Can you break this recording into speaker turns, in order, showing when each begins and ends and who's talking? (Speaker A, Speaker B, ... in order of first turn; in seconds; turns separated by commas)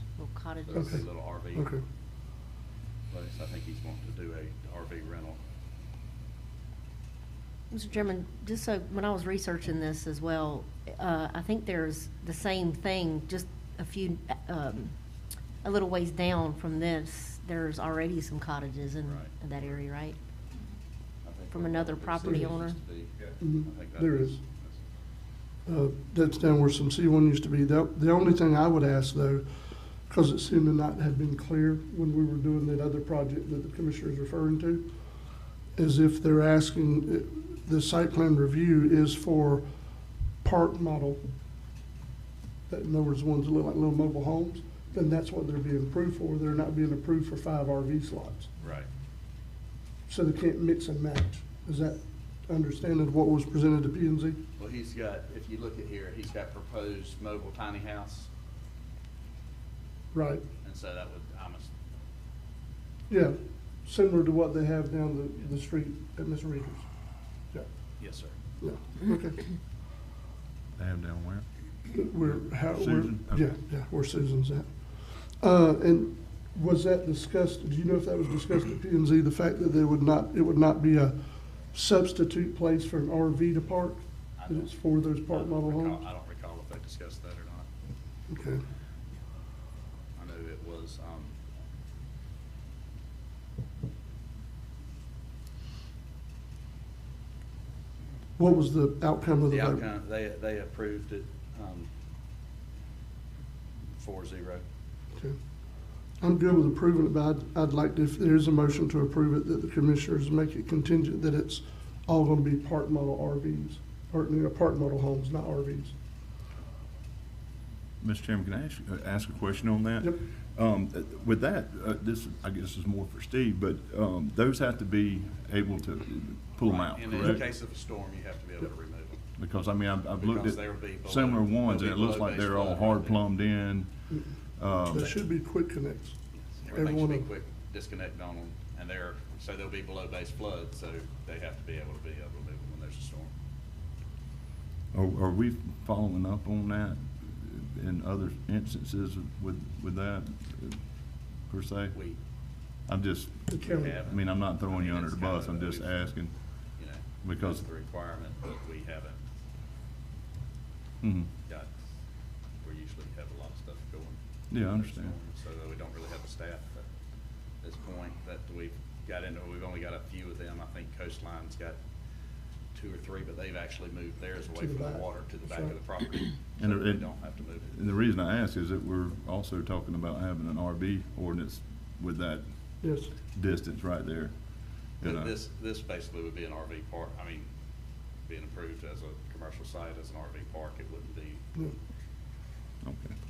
Speaker A: 0.2-1.0, Speaker B: 0.6-1.7, Speaker C: 0.8-1.0, Speaker C: 1.5-1.8, Speaker B: 3.1-5.4, Speaker A: 7.7-14.9, Speaker A: 15.6-20.2, Speaker B: 19.0-19.3, Speaker B: 21.2-24.8, Speaker A: 21.5-22.8, Speaker C: 23.4-24.4, Speaker C: 25.6-29.4, Speaker C: 30.1-34.9, Speaker C: 35.8-39.6, Speaker C: 40.4-41.2, Speaker C: 42.7-48.5, Speaker B: 48.6-48.9, Speaker C: 50.1-54.4, Speaker B: 54.6-58.3, Speaker C: 60.1-60.4, Speaker B: 60.6-61.7, Speaker C: 63.1-66.8, Speaker B: 68.0-68.3, Speaker C: 68.6-69.4, Speaker D: 70.8-71.5, Speaker C: 71.9-74.7, Speaker D: 72.2-73.5, Speaker C: 75.4-81.1, Speaker C: 81.7-86.0, Speaker B: 84.4-84.7, Speaker B: 85.2-87.7, Speaker C: 88.3-88.6, Speaker B: 90.2-91.3, Speaker C: 98.4-99.8, Speaker B: 99.5-101.9, Speaker B: 103.9-104.6, Speaker C: 106.2-115.9, Speaker D: 118.0-127.4, Speaker B: 126.6-129.2, Speaker D: 129.4-133.9, Speaker B: 130.2-133.2, Speaker D: 134.6-135.1, Speaker C: 134.9-136.2, Speaker B: 136.3-143.3, Speaker C: 136.7-137.3, Speaker D: 144.9-150.8, Speaker D: 151.5-151.9, Speaker B: 151.9-152.2, Speaker D: 152.9-156.3, Speaker C: 153.5-154.0, Speaker B: 153.6-156.1, Speaker B: 156.8-159.2, Speaker D: 157.2-157.6, Speaker D: 161.0-161.3, Speaker B: 161.4-161.7, Speaker B: 162.6-166.9, Speaker D: 164.5-165.1, Speaker B: 167.6-171.8, Speaker B: 172.7-177.7, Speaker C: 174.6-175.7, Speaker D: 176.6-177.1, Speaker D: 177.7-182.5, Speaker C: 182.8-183.1, Speaker D: 183.2-184.3, Speaker D: 185.0-185.3, Speaker B: 185.0-187.5, Speaker B: 188.2-191.4, Speaker D: 192.8-193.1